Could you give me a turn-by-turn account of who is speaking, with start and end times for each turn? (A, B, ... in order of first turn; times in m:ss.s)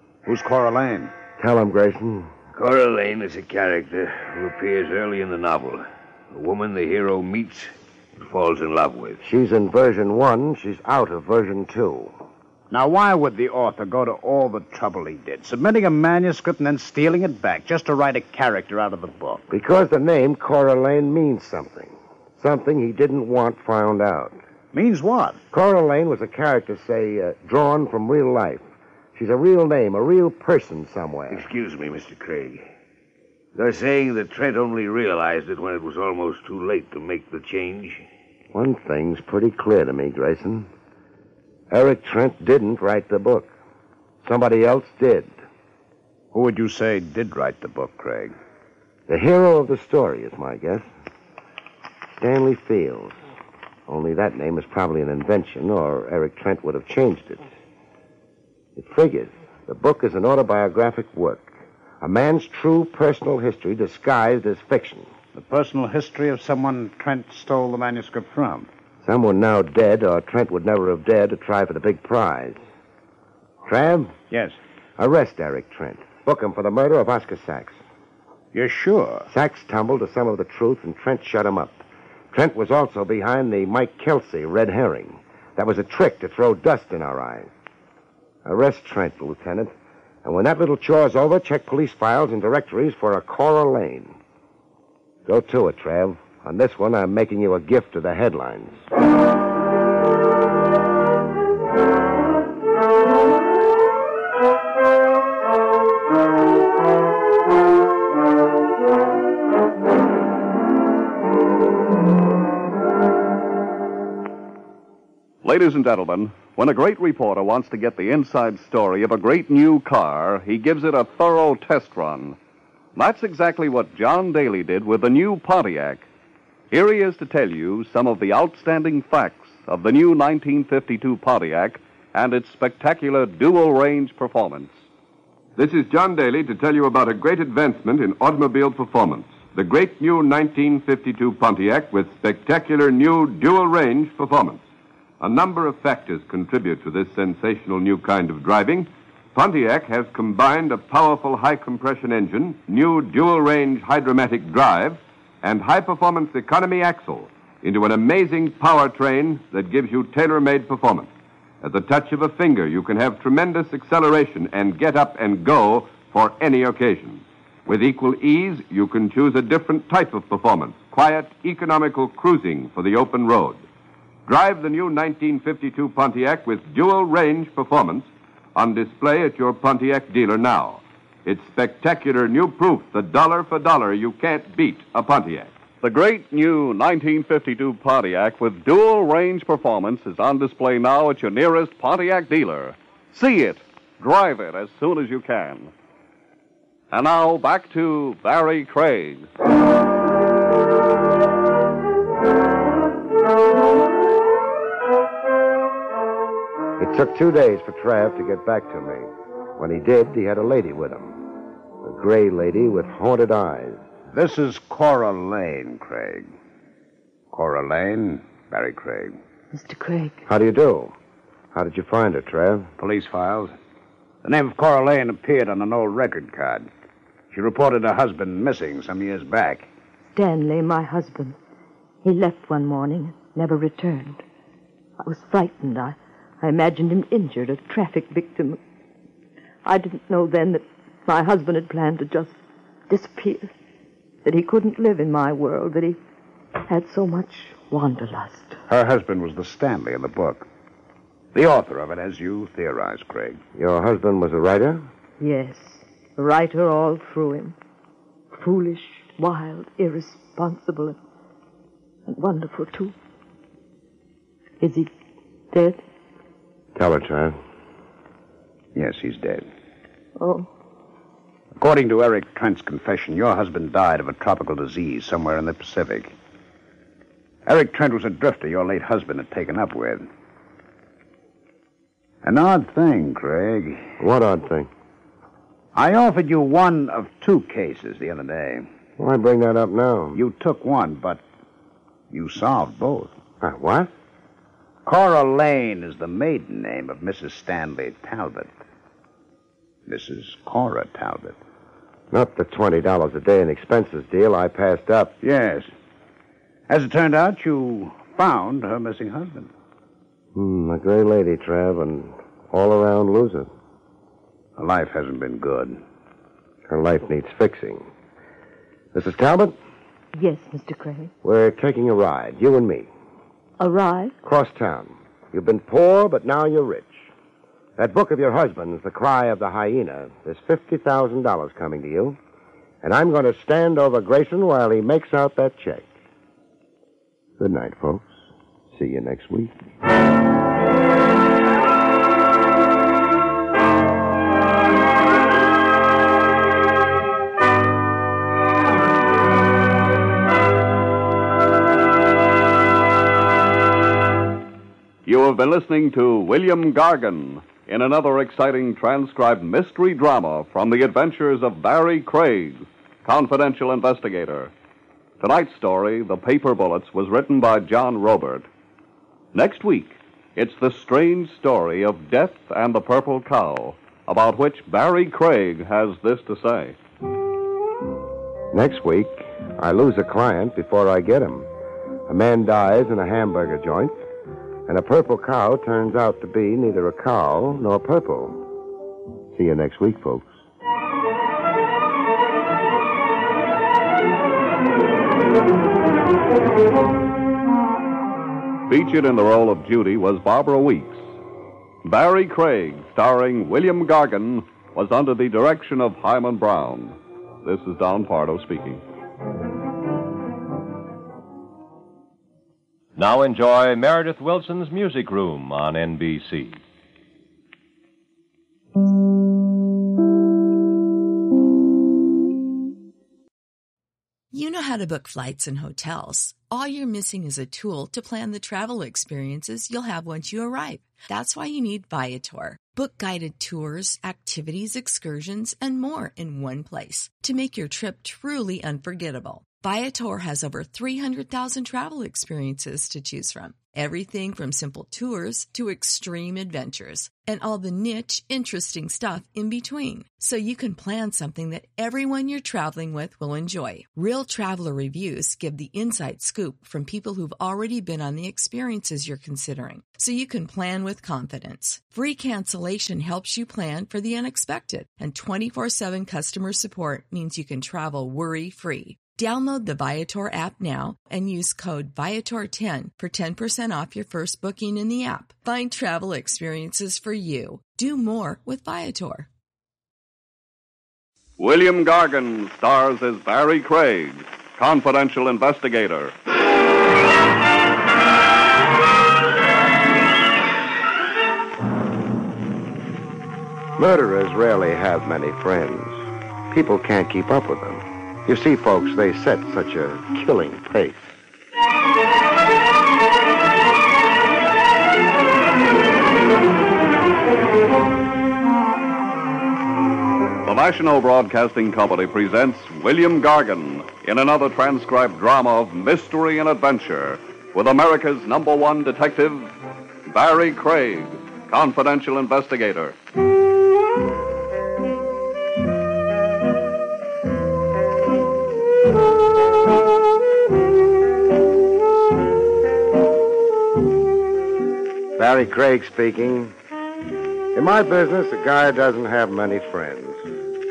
0:00.2-0:01.1 A
0:01.4-0:02.3 B
0:02.5-0:09.2 C
0:09.2-0:12.2 B
0:12.7-0:19.5 A
0:19.5-0:24.4 B
0:24.7-0:25.4 A
0:25.5-0:28.6 B
0:29.2-0:31.5 B
0:31.3-0:32.7 C
0:33.6-0:38.0 C
0:38.5-0:40.7 B
0:41.7-0:43.5 B
0:44.2-0:45.3 B
0:46.3-0:48.4 A
0:49.1-0:50.9 B
0:52.2-0:53.2 B
0:53.9-0:57.5 B
0:58.8-1:05.1 B
1:05.3-1:08.7 A
1:09.0-1:12.6 B
1:13.6-1:14.2 B
1:14.3-1:14.6 A
1:15.0-1:17.8 B
1:18.5-1:19.3 A
1:19.3-1:27.5 B
1:28.4-1:29.7 B
1:30.2-1:34.2 B
1:35.3-1:38.8 B
1:55.4-2:02.4 D
2:03.0-2:06.1 D
2:06.7-2:14.8 D
2:15.6-2:24.6 E
2:25.2-2:41.1 E
2:41.6-2:53.6 E
2:54.3-3:05.5 E
3:05.8-3:15.7 D
3:16.9-3:19.3 D
3:26.8-3:31.3 B
3:31.8-3:33.8 B
3:34.1-3:36.3 A
3:37.3-3:39.2 A
3:39.5-3:40.2 F
3:40.3-3:40.9 B
3:41.5-3:42.7 B
3:42.8-3:43.6 A
3:44.2-3:46.7 A
3:47.3-3:49.7 A
3:50.1-3:51.4 F
3:52.0-3:54.2 F
3:55.0-3:58.6 F
3:59.6-4:02.4 F
4:02.9-4:03.5 F
4:04.2-4:06.0 F
4:06.6-4:08.6 F
4:08.7-4:10.5 A
4:11.3-4:13.4 A
4:13.6-4:14.9 B
4:15.2-4:17.6 F
4:18.3-4:21.0 F
4:22.1-4:22.9 F
4:24.6-4:24.9 F
4:25.5-4:25.8 F
4:26.8-4:27.4 B
4:28.8-4:29.5 A
4:30.2-4:30.5 F
4:31.6-4:36.1 A
4:37.5-4:40.1 A
4:42.2-4:43.9 A
4:44.0-4:44.7 B
4:45.7-4:48.7 A
4:49.0-4:50.2 B
4:50.1-4:51.2 A
4:52.1-4:53.2 A
4:53.4-4:53.9 B
4:54.8-4:58.5 A
4:59.9-5:01.4 A
5:02.1-5:05.1 B
5:05.2-5:05.7 A
5:06.7-5:09.5 A
5:10.3-5:13.5 B
5:14.6-5:15.8 A
5:16.7-5:17.9 B
5:18.9-5:19.6 B
5:20.1-5:21.1 F
5:21.2-5:22.9 B
5:23.6-5:24.2 F
5:24.2-5:27.1 B
5:27.8-5:32.2 B
5:32.8-5:35.9 B
5:37.4-5:39.6 B
5:55.1-6:04.5 D
6:05.2-6:08.5 D
6:09.3-6:16.8 D
6:18.5-6:21.5 B
6:22.1-6:24.0 B
6:24.7-6:28.4 B
6:29.3-6:30.4 B
6:38.7-6:41.0 D
6:41.8-6:48.8 D
6:53.0-6:56.6 G
7:04.3-7:59.3 H
8:01.4-8:06.1 D
8:13.8-8:21.2 B
8:30.4-8:39.5 D
8:40.1-8:43.0 D
8:55.2-8:56.5 B
8:57.5-9:00.3 B